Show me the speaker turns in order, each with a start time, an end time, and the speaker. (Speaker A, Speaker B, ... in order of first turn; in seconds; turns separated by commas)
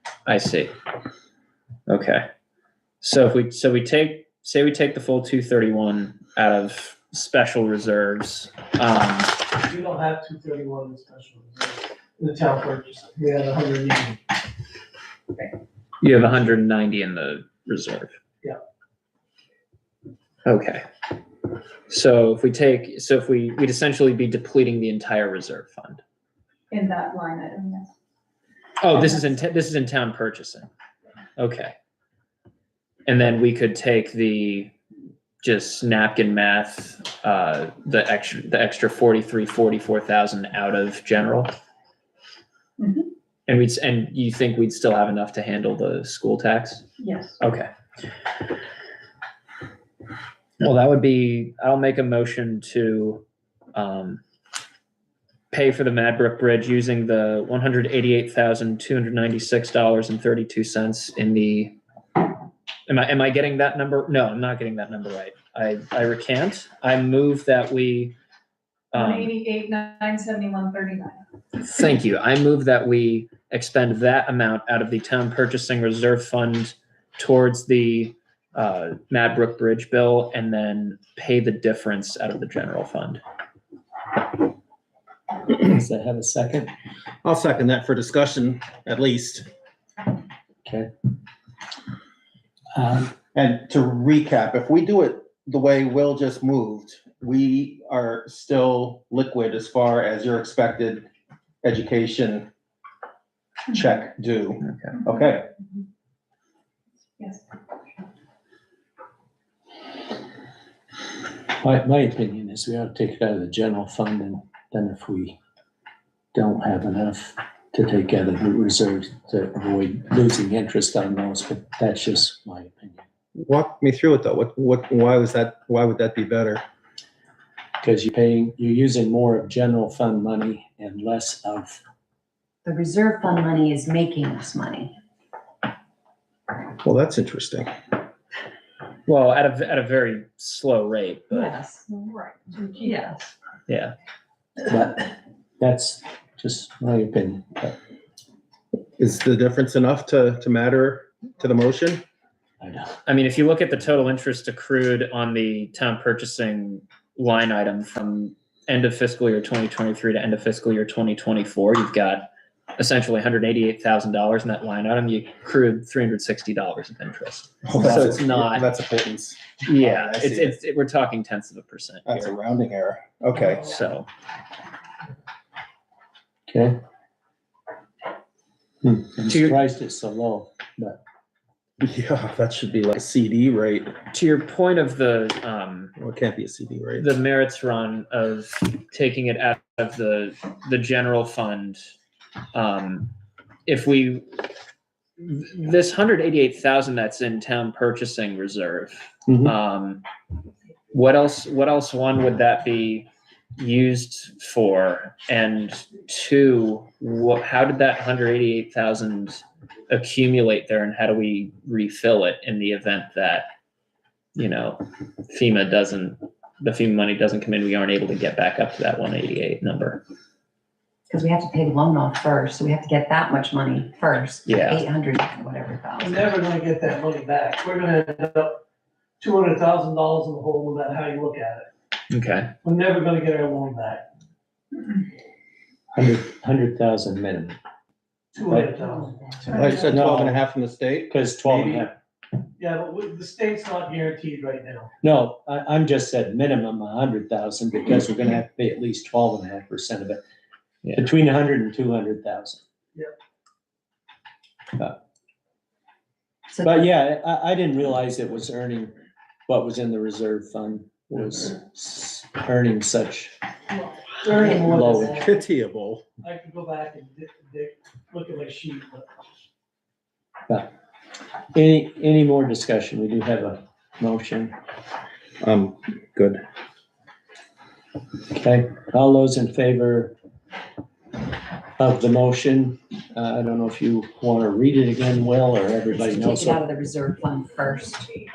Speaker A: 0.2-0.7, Speaker A: 1.9-2.2, Speaker A: 3.0-9.5, Speaker B: 9.6-14.2, Speaker A: 16.0-18.1, Speaker A: 20.4-20.8, Speaker A: 21.9-26.0, Speaker C: 26.7-27.9, Speaker A: 28.8-30.7, Speaker A: 31.4-31.7, Speaker A: 33.0-34.7, Speaker A: 35.4-41.5, Speaker C: 42.8-43.1, Speaker A: 43.5-46.9, Speaker C: 47.0-47.4, Speaker A: 47.4-47.7, Speaker A: 50.6-54.2, Speaker A: 55.5-61.8, Speaker A: 62.9-68.2, Speaker A: 68.9-69.3, Speaker C: 68.9-71.2, Speaker A: 71.5-83.2, Speaker D: 85.5-86.7, Speaker E: 87.2-89.5, Speaker D: 90.6-90.9, Speaker D: 92.7-93.1, Speaker E: 93.3-101.1, Speaker E: 101.6-102.5, Speaker E: 103.7-105.5, Speaker A: 104.6-104.9, Speaker D: 111.6-115.4, Speaker D: 116.3-123.0, Speaker E: 123.3-126.6, Speaker D: 127.8-131.8, Speaker F: 132.6-134.9, Speaker E: 136.8-137.7, Speaker A: 139.1-141.5, Speaker F: 141.3-141.8, Speaker C: 141.9-143.1, Speaker F: 142.8-143.3, Speaker A: 143.7-143.9, Speaker D: 144.7-147.8, Speaker E: 149.0-152.0, Speaker D: 152.6-153.0, Speaker A: 153.1-168.7, Speaker E: 167.6-170.6, Speaker A: 169.7-172.3, Speaker E: 172.1-173.7, Speaker B: 173.4-173.7, Speaker A: 173.6-174.1, Speaker D: 176.5-176.8, Speaker D: 178.8-181.0, Speaker A: 179.2-179.6, Speaker E: 181.8-183.9, Speaker A: 184.1-185.9, Speaker E: 186.0-187.1, Speaker A: 187.0-191.8, Speaker A: 192.5-193.1, Speaker A: 193.7-194.4, Speaker A: 195.2-200.0, Speaker D: 199.3-199.5, Speaker A: 200.9-213.5, Speaker A: 214.3-220.0, Speaker F: 221.1-226.3, Speaker A: 224.4-224.8, Speaker B: 226.0-228.6, Speaker B: 229.2-231.7, Speaker A: 232.1-232.5, Speaker B: 232.6-234.1, Speaker D: 235.9-237.6, Speaker B: 238.3-239.9, Speaker E: 239.5-241.1, Speaker D: 240.0-240.4, Speaker D: 241.1-241.9, Speaker B: 241.4-241.9, Speaker B: 242.6-244.9, Speaker D: 245.0-250.2, Speaker D: 250.9-252.6, Speaker F: 256.5-256.9, Speaker D: 256.6-259.0, Speaker D: 259.5-263.3, Speaker B: 264.2-265.4, Speaker F: 264.3-265.2, Speaker E: 265.1-266.1, Speaker B: 266.2-269.1, Speaker D: 271.5-274.6, Speaker E: 275.4-276.4, Speaker D: 278.3-280.1, Speaker D: 281.8-286.6, Speaker F: 285.9-288.1